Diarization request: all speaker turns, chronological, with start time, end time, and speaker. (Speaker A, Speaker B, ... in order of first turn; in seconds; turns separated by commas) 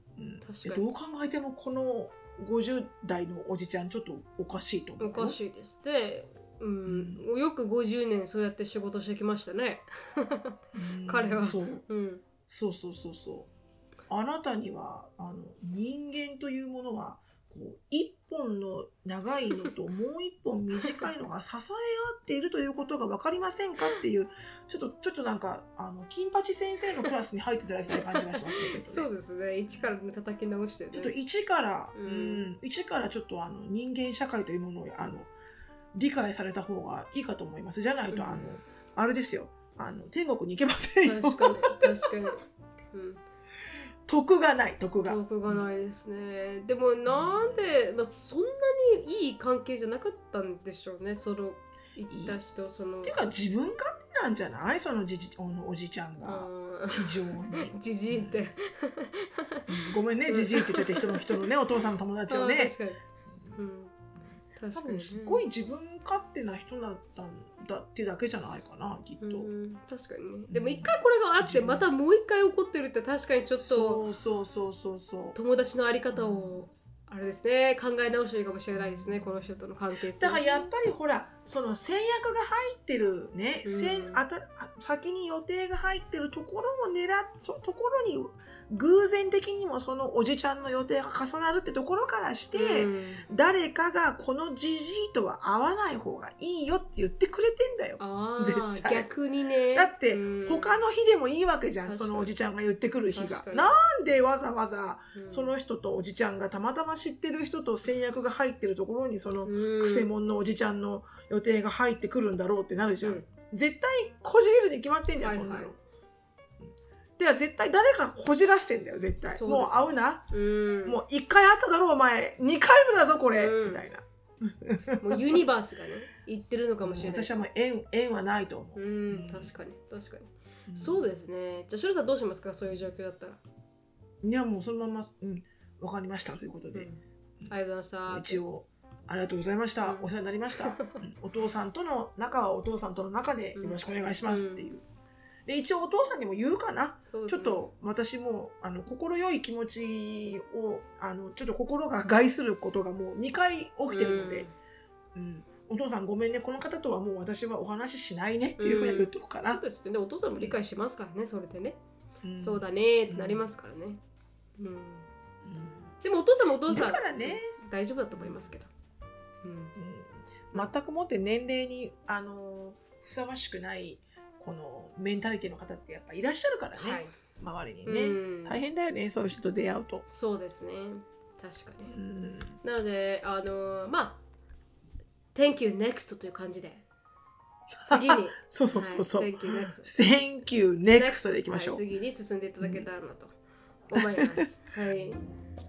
Speaker A: 0.2-5.4, Speaker B: 0.4-0.8, Speaker B: 5.0-12.2, Speaker A: 6.9-7.2, Speaker A: 10.8-11.8, Speaker A: 12.5-13.5, Speaker A: 14.1-29.1, Speaker B: 27.9-31.1, Speaker A: 30.9-35.3, Speaker B: 31.9-32.5, Speaker A: 35.9-42.3, Speaker B: 38.1-38.5, Speaker B: 41.0-43.2, Speaker A: 44.1-45.6, Speaker B: 45.0-53.2, Speaker A: 47.1-47.6, Speaker A: 52.1-52.4, Speaker A: 53.0-58.5, Speaker B: 56.2-59.6, Speaker A: 59.7-62.8, Speaker B: 60.3-61.5, Speaker B: 62.3-63.0, Speaker B: 63.5-63.9, Speaker B: 64.6-65.4, Speaker A: 64.7-69.5, Speaker B: 69.2-74.0, Speaker A: 70.5-71.9, Speaker A: 73.6-75.4, Speaker B: 75.3-80.7, Speaker A: 76.2-76.6, Speaker A: 78.8-79.3, Speaker A: 80.1-99.1, Speaker B: 83.7-84.2, Speaker B: 92.5-93.2, Speaker B: 98.0-100.8, Speaker A: 99.7-115.8, Speaker B: 101.9-102.3, Speaker B: 103.2-103.8, Speaker B: 105.2-105.5, Speaker B: 109.5-110.1, Speaker B: 113.0-113.3, Speaker B: 115.2-115.7, Speaker A: 116.6-120.3, Speaker B: 119.3-121.0, Speaker A: 120.8-125.2, Speaker B: 123.4-123.9, Speaker B: 125.0-127.4, Speaker A: 126.8-129.5, Speaker B: 128.8-133.4, Speaker A: 130.7-131.1, Speaker A: 134.2-136.9, Speaker B: 136.7-138.4, Speaker A: 138.1-144.8, Speaker B: 140.6-141.0, Speaker B: 143.6-144.7, Speaker A: 145.5-154.5, Speaker B: 147.1-147.7, Speaker B: 153.9-154.5, Speaker A: 155.2-159.6, Speaker B: 158.6-161.8, Speaker A: 162.2-163.4, Speaker B: 162.4-164.0, Speaker B: 164.6-165.1, Speaker A: 165.4-165.9, Speaker B: 166.0-168.7, Speaker A: 166.7-167.5, Speaker A: 168.2-168.5, Speaker B: 169.4-169.8, Speaker A: 169.8-180.0, Speaker B: 176.8-177.2, Speaker B: 177.8-178.6, Speaker B: 180.1-182.0, Speaker A: 181.9-182.6, Speaker B: 182.6-184.2, Speaker B: 185.3-186.8, Speaker A: 187.8-191.8, Speaker B: 187.8-189.9, Speaker B: 190.9-193.3, Speaker A: 192.6-192.9, Speaker B: 193.9-195.2, Speaker A: 194.0-194.4